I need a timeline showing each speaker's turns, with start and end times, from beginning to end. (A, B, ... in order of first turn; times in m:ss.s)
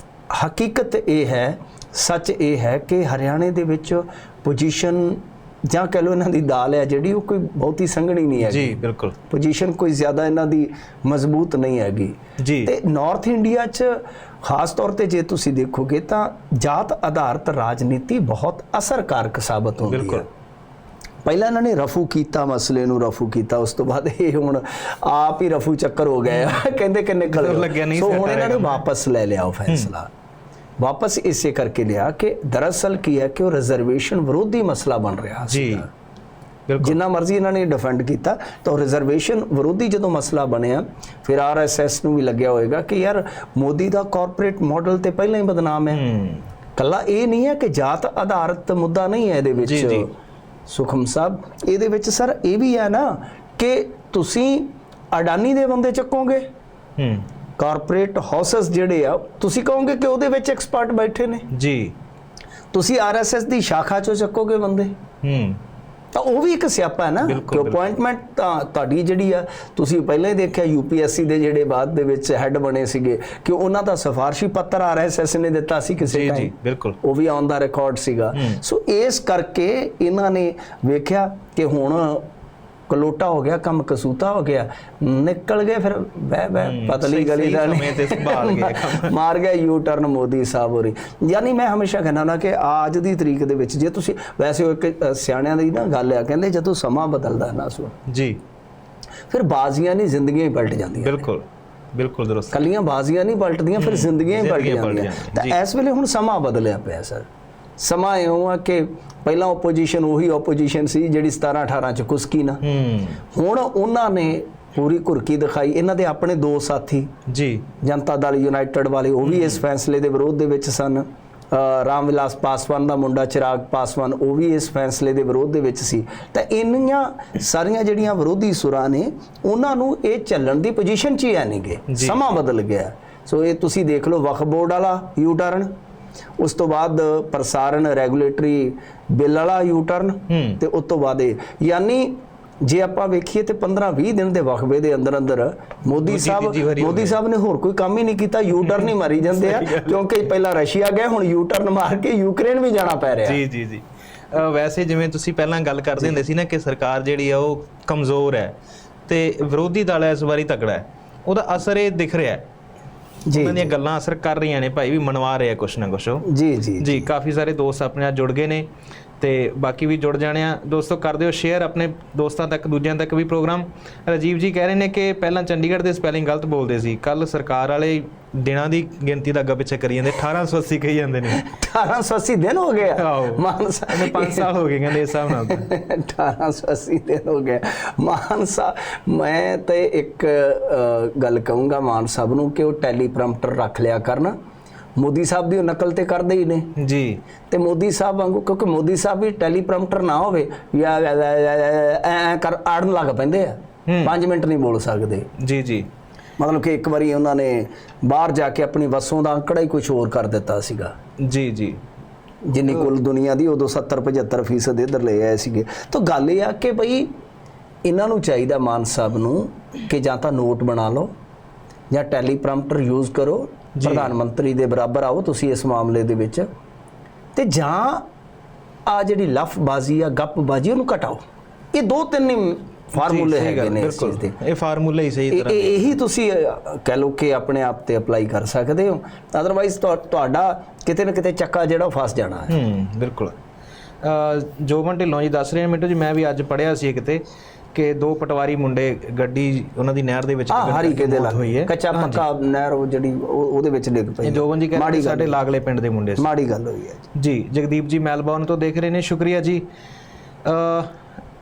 0:00.3-0:20.3 A
0:08.4-0:09.1 B
0:12.4-0:12.7 B
0:19.8-0:20.2 B
0:21.2-0:30.1 A
0:26.3-0:26.6 B
0:27.3-0:28.8 B
0:30.8-0:35.9 A
0:35.5-0:35.8 B
0:36.7-0:37.0 B
0:36.8-0:46.0 A
0:45.9-0:46.4 B
0:46.8-0:50.1 A
0:49.6-0:50.1 B
0:50.7-0:56.4 A
0:57.0-0:57.2 B
0:57.6-1:01.5 A
1:01.5-1:01.9 B
1:02.7-1:04.9 A
1:05.2-1:05.6 B
1:06.1-1:22.2 A
1:07.2-1:08.0 B
1:16.0-1:17.0 B
1:18.3-1:18.6 B
1:22.9-1:38.0 A
1:26.6-1:29.1 B
1:38.1-1:38.4 B
1:39.3-1:41.2 A
1:40.9-1:42.6 B
1:42.5-1:47.2 A
1:43.8-1:45.6 B
1:47.8-1:52.6 A
1:52.6-1:53.2 B
1:53.3-1:57.1 A
1:57.3-1:57.6 B
1:57.8-2:15.7 A
1:59.2-1:59.6 B
2:11.9-2:12.2 B
2:16.4-2:33.4 A
2:20.3-2:20.6 B
2:26.0-2:27.2 B
2:28.6-2:30.0 B
2:33.2-2:38.5 B
2:39.1-2:42.4 B
2:43.3-2:43.7 A
2:43.3-2:46.2 B
2:46.2-2:47.1 A
2:46.8-2:48.7 B
2:49.2-3:01.4 B
3:01.3-3:14.3 A
3:02.9-3:05.7 B
3:15.0-3:16.7 A
3:16.8-3:17.2 B
3:17.5-3:25.3 A
3:23.9-3:24.1 B
3:25.4-3:25.9 B
3:26.4-3:30.9 A
3:31.2-3:31.8 B
3:32.5-3:37.1 A
3:37.8-3:41.1 A
3:41.9-3:46.5 A
3:43.8-3:44.1 B
3:47.3-3:48.0 A
3:48.9-3:51.2 A
3:51.7-3:54.4 A
3:52.9-3:55.9 B
3:55.3-4:02.6 A
4:02.5-4:03.3 B
4:04.0-4:07.2 B
4:07.7-4:12.2 B
4:10.5-4:15.4 A
4:14.2-4:16.2 B
4:16.2-4:17.1 A
4:17.2-4:19.6 B
4:20.4-4:20.9 B